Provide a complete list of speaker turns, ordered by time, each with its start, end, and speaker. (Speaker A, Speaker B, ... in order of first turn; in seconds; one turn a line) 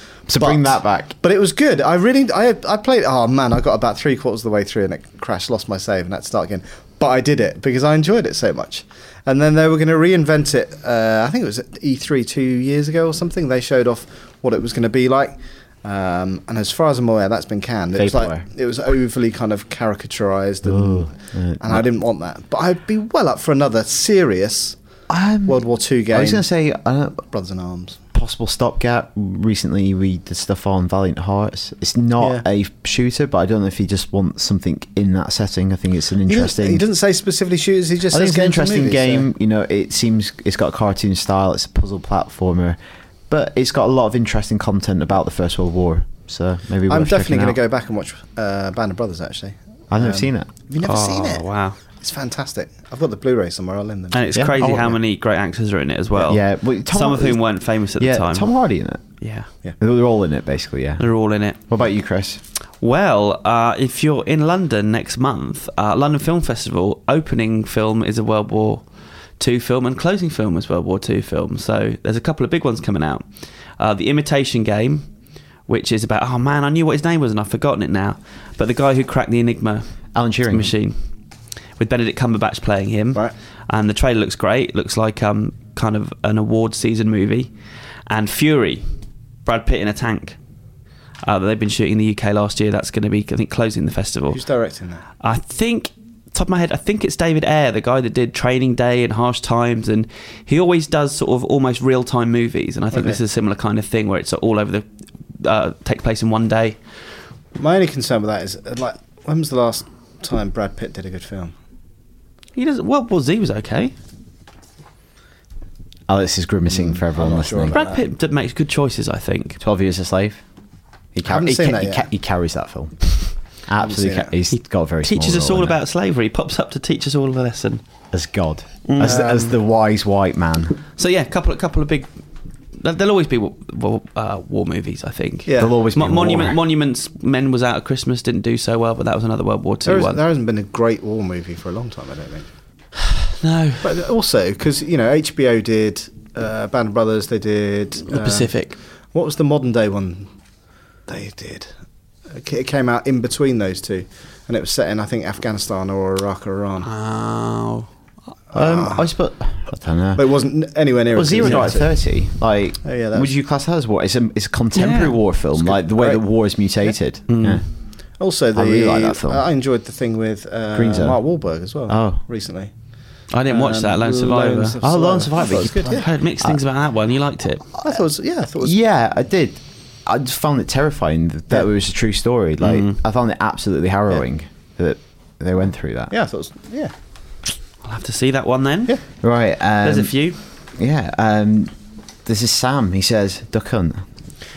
Speaker A: 0.3-1.1
Speaker B: 0.3-24.8
Speaker A: 17.9-18.4
Speaker A: 20.6-21.9
Speaker A: 25.1-27.2
Speaker B: 25.4-26.5
Speaker B: 27.3-28.0
Speaker A: 28.1-36.8
Speaker B: 32.2-32.4
Speaker B: 36.3-39.3
Speaker A: 38.1-42.8
Speaker A: 43.3-47.6
Speaker B: 46.9-54.3
Speaker A: 49.9-50.5
Speaker C: 50.8-51.8
Speaker C: 54.1-58.5
Speaker A: 54.4-55.0
Speaker A: 56.2-59.0
Speaker C: 59.2-59.5
Speaker A: 59.8-61.1
Speaker C: 61.0-61.6
Speaker A: 61.7-62.4
Speaker C: 62.8-68.9
Speaker C: 69.4-73.3
Speaker C: 73.8-75.1
Speaker C: 75.7-79.9
Speaker A: 80.1-80.7
Speaker C: 80.5-81.0
Speaker C: 81.8-87.5
Speaker C: 88.1-88.8
Speaker C: 89.5-90.4
Speaker C: 91.2-94.4
Speaker B: 94.3-95.1
Speaker C: 95.2-104.9
Speaker B: 102.9-103.2
Speaker C: 105.4-106.8
Speaker B: 107.6-111.5
Speaker C: 112.6-113.9
Speaker A: 116.1-117.8
Speaker B: 116.7-118.1
Speaker C: 117.7-119.6
Speaker A: 119.6-120.4
Speaker A: 121.2-125.8
Speaker B: 121.2-122.1
Speaker B: 123.8-124.3
Speaker C: 124.5-127.8
Speaker A: 128.1-130.8
Speaker C: 128.9-129.2
Speaker B: 129.0-129.5
Speaker C: 131.0-132.1
Speaker C: 132.8-140.2
Speaker B: 135.5-135.8
Speaker A: 135.6-136.6
Speaker B: 139.8-142.5
Speaker C: 143.4-143.8
Speaker B: 143.8-150.3
Speaker C: 148.1-148.8
Speaker B: 151.1-151.7
Speaker B: 152.3-156.9
Speaker C: 156.8-157.9
Speaker B: 158.5-159.1
Speaker A: 158.5-160.4
Speaker B: 160.2-162.1
Speaker A: 161.1-167.7
Speaker C: 161.4-161.7
Speaker B: 162.8-163.3
Speaker C: 164.8-165.2
Speaker B: 165.6-167.0
Speaker C: 167.3-167.6
Speaker B: 168.2-172.7
Speaker A: 168.5-169.4
Speaker A: 170.7-171.2
Speaker A: 171.9-172.2
Speaker C: 173.3-174.8
Speaker B: 173.5-176.1
Speaker A: 174.8-176.6
Speaker C: 175.7-177.6
Speaker B: 177.8-178.8
Speaker A: 178.6-186.1
Speaker C: 182.6-183.0
Speaker B: 186.1-186.9
Speaker C: 187.8-189.0
Speaker A: 189.2-190.1
Speaker C: 189.8-190.4
Speaker A: 190.8-194.0